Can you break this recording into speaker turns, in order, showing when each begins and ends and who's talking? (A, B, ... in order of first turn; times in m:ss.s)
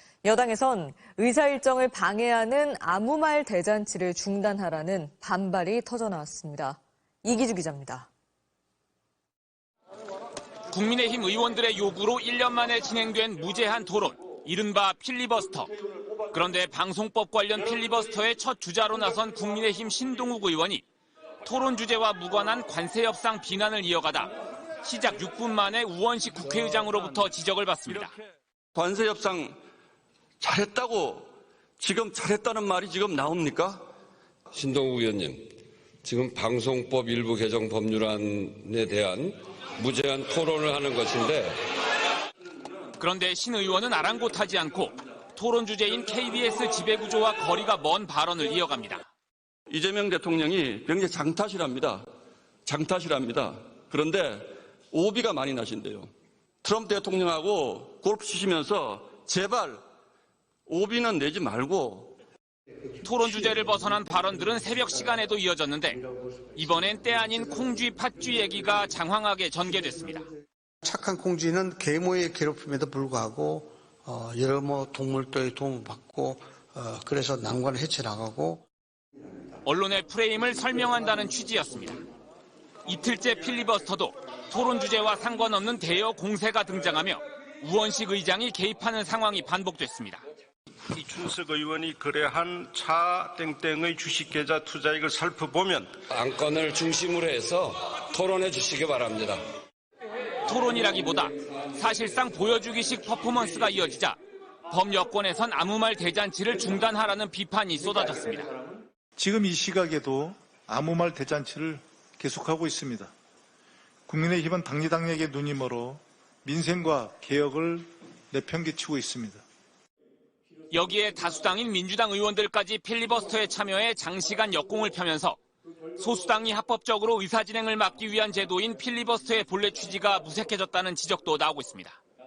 0:00.2-0:08.1 A
0:10.7-0:15.7 B
0:16.3-0:20.8 B
0:21.4-0:24.3 B
0:24.8-0:28.1 B
0:28.7-0:29.6 C
0:30.4-0:33.9 C
0:34.5-0:35.5 D
0:36.0-0:41.6 D
0:43.0-0:49.0 B
0:49.7-0:52.0 C
0:52.6-0:56.1 C
0:56.6-0:59.8 C
1:00.7-1:02.1 C
1:03.0-1:06.0 B
1:06.6-1:10.2 B
1:10.8-1:18.6 E
1:19.6-1:22.0 B
1:22.9-1:30.2 B
1:30.9-1:36.0 F
1:36.1-1:39.4 D
1:40.5-1:44.2 B
1:44.7-1:48.5 B
1:49.2-1:53.1 G
1:54.1-1:59.4 G
2:00.7-2:05.4 B
2:06.0-2:12.0 B